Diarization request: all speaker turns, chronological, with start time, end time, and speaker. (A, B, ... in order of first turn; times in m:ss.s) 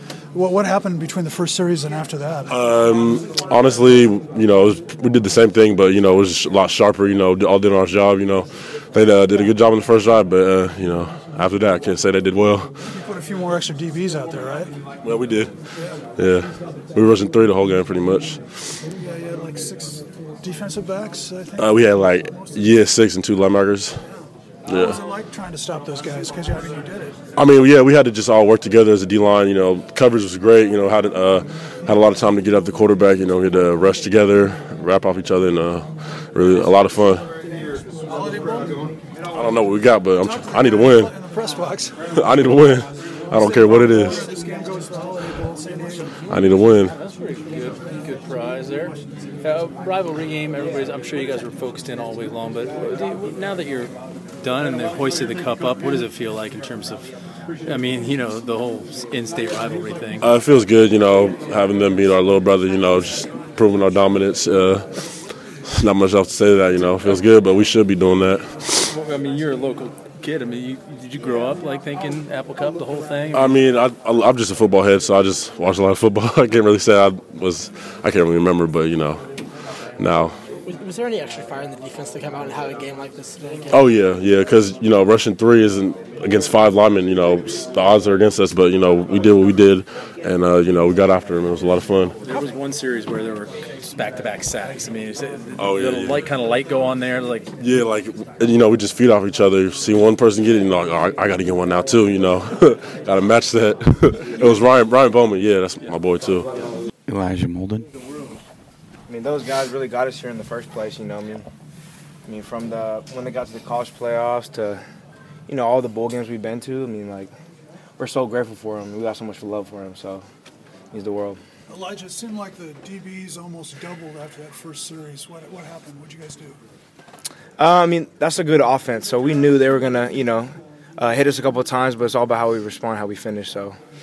0:00.3-0:02.5 A
0:02.5-0:12.8 B
0:12.9-0:14.7 A
0:15.0-0:15.6 B
0:16.2-0:18.4 B
0:18.9-0:22.6 A
0:21.6-0:24.0 B
0:24.7-0:25.0 B
0:24.7-0:27.2 A
0:27.4-0:37.2 B
0:38.2-0:38.5 A
0:39.3-0:41.1 B
0:40.2-0:42.1 A
0:42.2-0:44.2 B
0:43.3-0:46.1 A
0:46.3-0:46.9 B
0:46.9-0:57.1 C
0:57.6-1:00.3 C
1:00.2-1:08.8 B
1:08.9-1:13.6 C
1:13.3-1:19.2 B
1:20.0-1:20.4 B
1:20.6-1:23.8 D
1:23.7-1:32.1 B
1:32.2-1:37.5 C
1:35.6-1:36.3 B
1:37.6-1:46.5 B
1:49.1-1:51.4 E
1:52.3-1:54.8 E
1:55.5-1:57.3 E
1:58.0-2:00.2 E
2:00.9-2:01.4 E
2:01.7-2:06.6 A
2:07.6-2:13.7 E